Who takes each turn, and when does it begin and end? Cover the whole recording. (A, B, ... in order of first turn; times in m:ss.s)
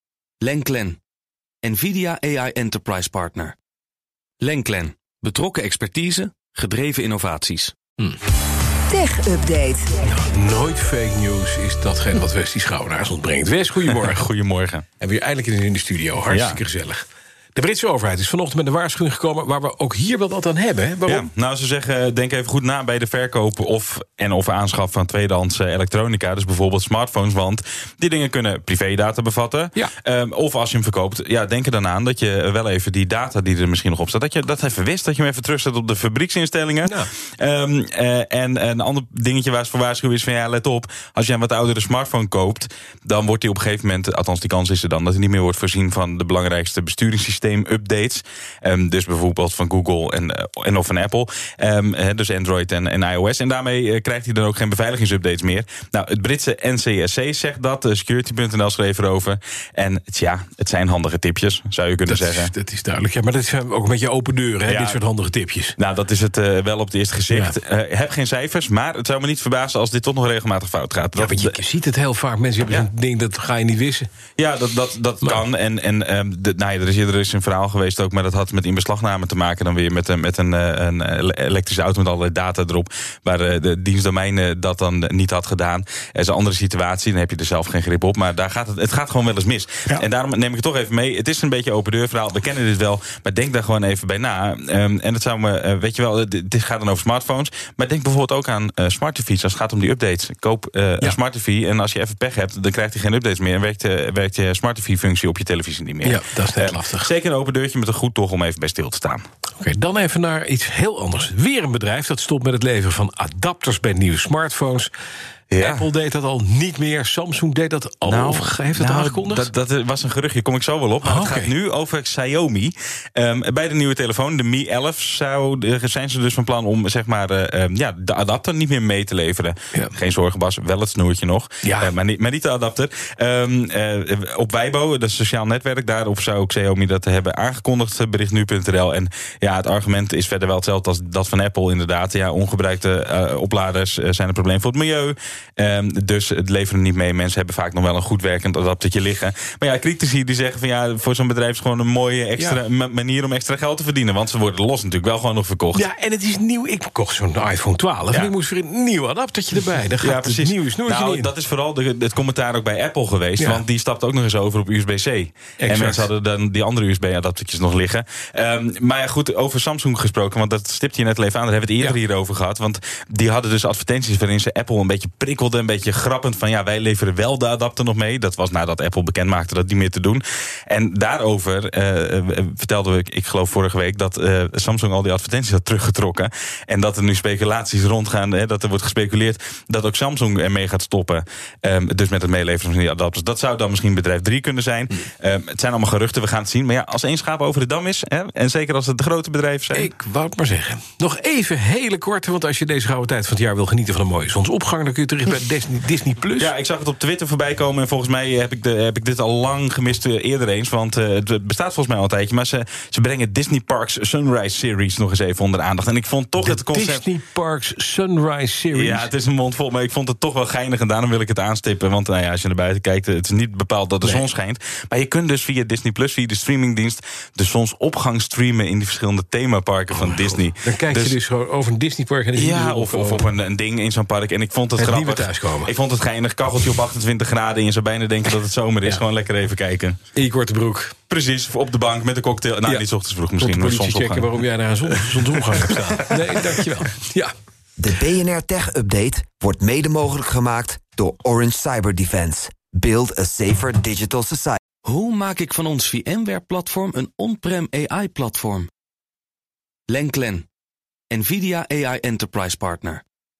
0:00.4-0:01.0 A
0:01.6-0:03.6 A
0:04.4-0:07.7 A
0:08.9-0:09.8 B
0:10.0-0:14.2 C
0:13.9-0:14.8 D
0:15.0-0:17.0 C
0:16.3-0:16.6 D
0:17.6-0:21.3 C
0:21.0-1:02.5 D
1:02.0-1:05.7 C
1:04.6-1:05.0 D
1:05.8-1:11.6 D
1:07.3-1:07.6 C
1:11.2-1:14.1 C
1:14.4-1:49.2 D
1:46.0-1:47.1 C
1:49.6-1:54.9 C
1:55.5-1:55.9 D
1:55.6-1:59.5 C
1:58.0-2:35.8 D
2:01.0-2:01.5 C
2:11.6-2:11.9 C
2:35.7-2:41.3 C
2:40.0-3:19.9 D
2:43.4-2:43.6 C
2:45.6-2:46.1 C
3:19.7-3:26.5 C
3:26.4-3:37.0 D
3:36.4-3:39.1 C
3:38.7-3:51.2 D
3:49.9-3:53.3 C
3:52.3-4:00.0 D
3:54.8-3:55.7 C
4:00.1-4:01.0 C
4:01.1-4:04.4 D
4:03.4-4:07.3 C
4:05.5-4:05.8 D
4:07.8-4:14.6 B
4:14.8-4:18.7 A
4:19.9-4:20.5 A
4:21.1-4:23.0 A